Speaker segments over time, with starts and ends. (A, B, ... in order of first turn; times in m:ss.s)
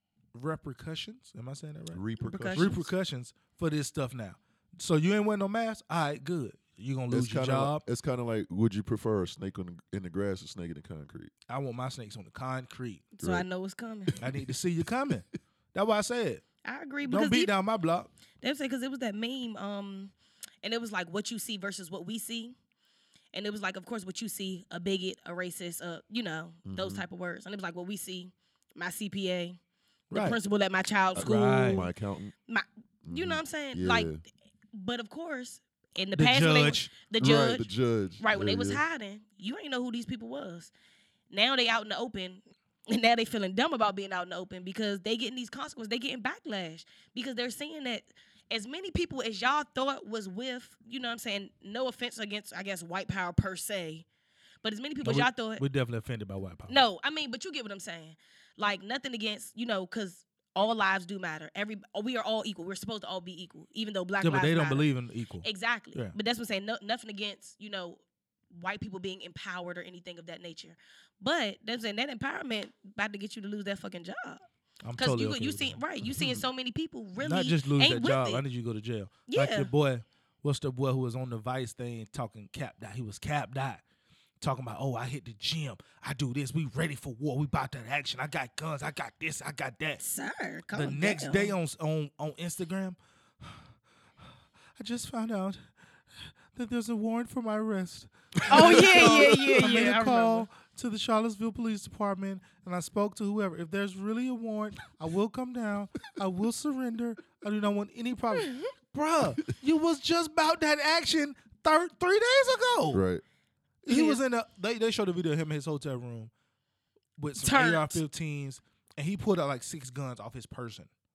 0:00.3-0:02.0 A
0:01.9-0:02.9 B
0:02.2-0:02.8 C
0:02.5-0:07.8 A
0:07.1-0:11.3 B
0:11.5-0:13.1 A
0:13.1-0:14.1 C
0:14.2-0:16.4 A
0:16.6-0:17.5 C
0:17.0-0:18.1 A
0:18.4-0:22.5 C
0:23.3-0:29.6 C
0:26.6-0:27.0 B
0:30.1-0:30.4 A
0:30.1-0:31.9 C
0:31.1-0:32.3 B
0:31.2-0:31.9 A
0:32.5-0:34.1 C
0:33.0-0:34.2 B
0:34.7-0:37.7 C
0:36.2-0:36.9 A
0:37.2-0:38.8 B
0:38.2-0:40.7 C
0:41.3-0:54.0 C
0:54.6-0:55.6 C
0:55.0-0:56.8 A
0:56.7-1:04.9 C
1:04.2-1:06.2 A
1:05.4-1:14.4 C
1:14.8-1:15.8 A
1:15.0-1:18.4 C
1:16.1-1:16.4 B
1:17.2-1:23.8 A
1:19.3-1:19.7 C
1:24.4-1:30.0 A
1:30.0-1:31.5 C
1:30.7-1:33.7 A
1:34.2-1:35.6 A
1:36.1-1:53.0 A
1:38.4-1:39.6 B
1:38.5-1:40.5 C
1:48.4-1:48.7 C
1:52.9-1:53.2 B
1:53.8-1:56.3 A
1:53.9-1:54.2 C
1:57.2-2:00.9 A
1:57.4-1:58.0 C